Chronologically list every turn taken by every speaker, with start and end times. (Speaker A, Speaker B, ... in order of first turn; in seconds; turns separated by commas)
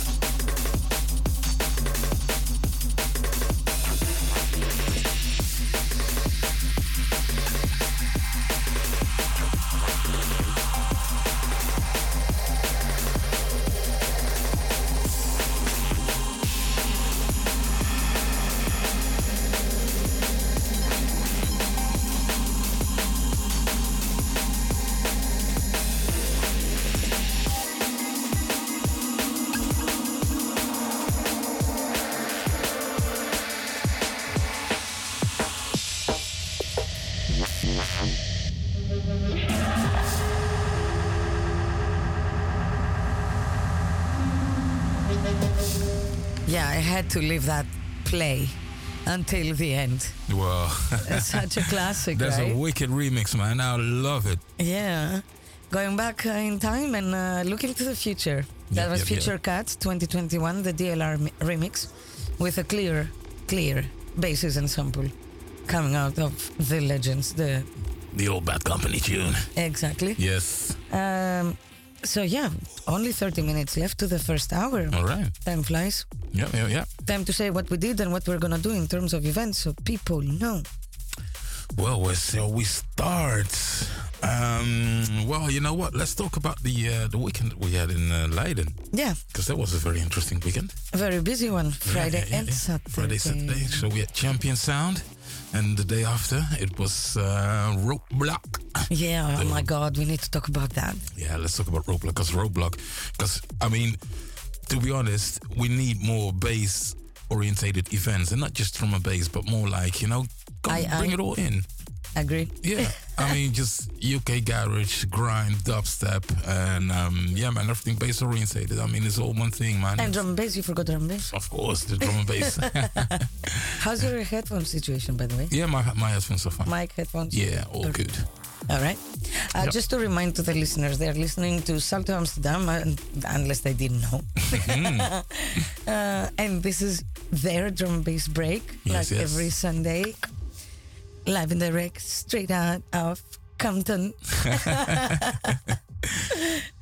Speaker A: 46.5-50.2, Speaker B: 50.3-54.4, Speaker A: 51.0-52.6, Speaker A: 54.6-65.1, Speaker B: 58.7-59.3, Speaker A: 65.7-67.7, Speaker B: 68.1-69.5, Speaker A: 69.5-70.2, Speaker B: 70.2-70.8, Speaker A: 70.9-76.1, Speaker B: 74.9-75.3, Speaker B: 76.3-76.9, Speaker A: 77.0-80.7, Speaker B: 81.8-90.8, Speaker A: 88.9-89.2, Speaker A: 90.9-93.8, Speaker B: 91.8-99.7, Speaker A: 98.9-101.0, Speaker B: 101.1-104.0, Speaker B: 104.7-111.7, Speaker A: 110.7-111.2, Speaker A: 112.1-113.0, Speaker B: 112.6-120.2, Speaker A: 120.0-121.3, Speaker B: 121.3-124.0, Speaker A: 122.0-123.2, Speaker A: 123.8-125.5, Speaker B: 125.5-126.7, Speaker A: 126.7-128.0, Speaker B: 127.3-128.3, Speaker A: 128.7-140.3, Speaker B: 134.5-135.1, Speaker B: 138.8-139.5, Speaker A: 141.2-145.6, Speaker B: 144.5-145.2, Speaker A: 146.3-146.7